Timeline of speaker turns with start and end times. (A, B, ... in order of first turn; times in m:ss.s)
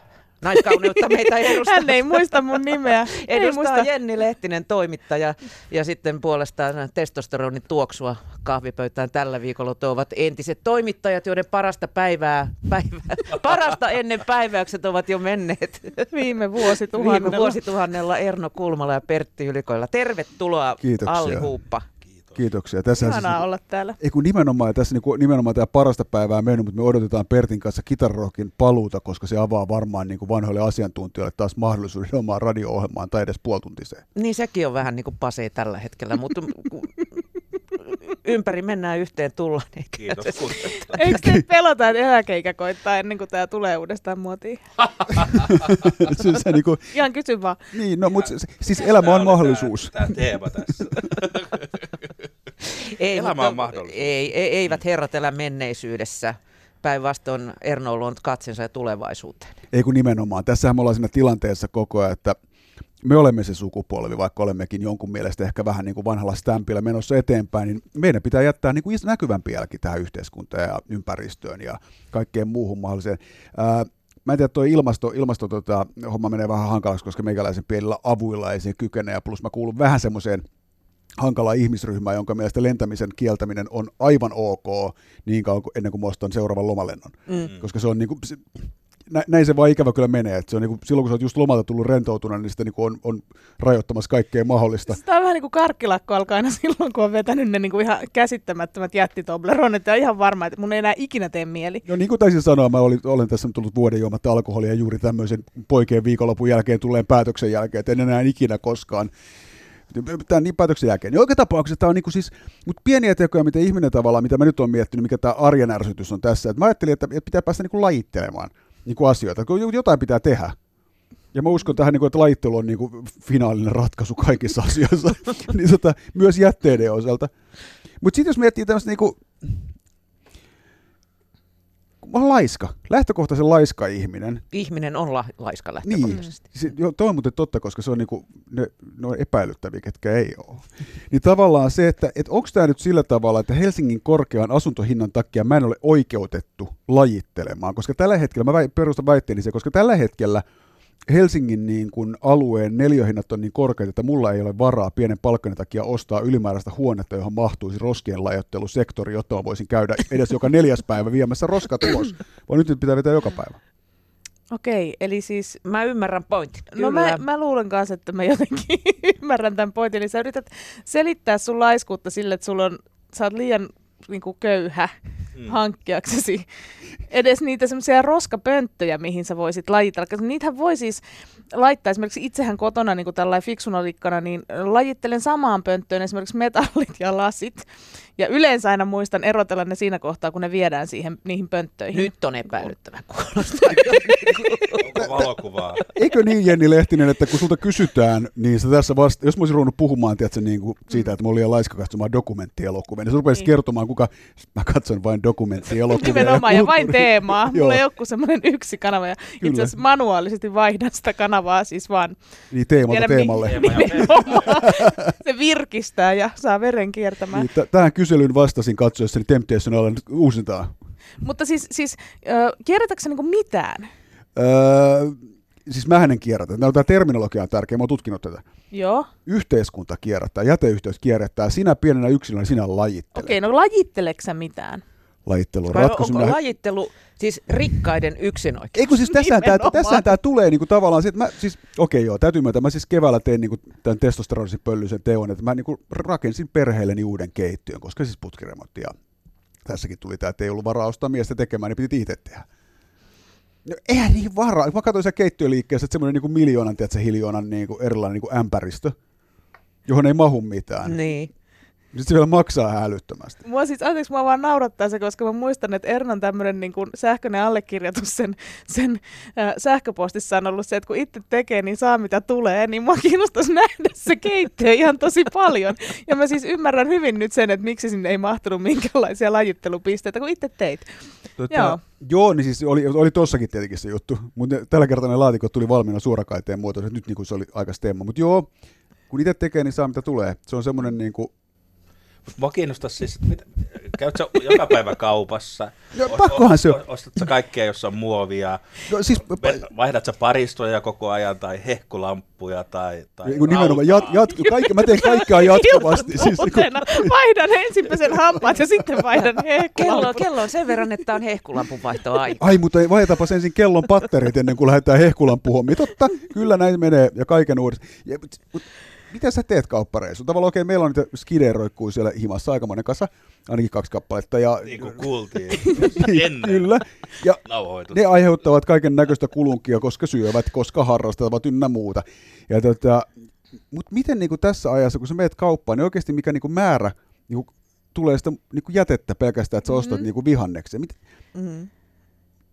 0:00.4-0:02.2 A
0:01.4-0:03.9 B
0:03.2-0:16.1 A
0:16.1-0:17.6 B
0:16.9-0:21.8 A
0:20.8-0:21.5 C
0:22.3-0:23.4 C
0:23.0-0:24.0 B
0:24.0-0:34.0 C
0:34.1-0:37.0 A
0:37.8-0:40.8 A
0:40.0-0:41.0 D
0:40.8-0:45.1 B
0:41.1-0:41.4 C
0:45.3-0:46.9 C
0:46.9-0:47.6 B
0:47.7-0:50.2 C
0:48.7-0:52.0 D
0:52.7-0:59.5 A
0:53.1-0:54.1 D
0:59.7-1:02.4 C
1:03.0-1:20.4 C
1:21.2-1:28.5 C
1:29.1-1:35.0 C
1:34.9-1:41.8 B
1:41.8-1:49.1 C
1:49.9-2:00.5 C
2:01.3-2:07.3 C
2:08.0-2:09.6 C
2:12.0-2:14.4 C
2:14.5-2:16.4 A
2:15.8-2:30.4 C
2:31.1-2:43.6 C
2:44.5-2:45.6 B
2:45.6-2:47.2 A
2:46.7-2:54.9 B
2:55.4-2:56.5 B
2:57.1-3:01.0 B
3:01.5-3:07.6 B
3:08.2-3:12.1 B
3:11.9-3:14.8 A
3:14.8-3:15.8 D
3:14.9-3:15.2 C
3:15.9-3:27.8 C
3:25.8-3:32.2 B
3:29.4-3:29.8 C
3:32.5-3:35.1 C
3:32.8-3:37.4 B
3:33.4-3:34.5 D
3:37.3-3:40.7 C
3:41.2-3:43.9 B
3:44.4-3:48.4 C
3:48.7-3:49.1 B
3:49.2-3:53.4 C
3:53.1-3:54.8 B
3:55.2-3:56.4 C
3:55.7-3:58.8 A
3:58.7-4:08.9 C
3:59.1-4:00.0 B
4:09.6-4:12.4 C
4:13.6-4:18.9 C
4:19.8-4:21.0 C
4:20.8-4:21.3 A
4:21.9-4:23.4 C
4:23.4-4:40.8 B
4:41.4-4:48.5 C
4:41.5-4:41.8 B
4:49.1-4:51.3 C
4:52.3-5:04.3 D
4:55.9-4:56.8 C
4:58.9-4:59.6 C
5:03.2-5:07.1 C
5:04.3-5:10.2 B
5:07.9-5:09.2 C
5:09.7-5:12.5 A
5:12.4-5:33.1 C
5:24.6-5:26.8 D
5:27.4-5:28.0 D
5:33.7-5:41.0 C
5:39.7-5:40.0 B
5:41.3-5:41.7 A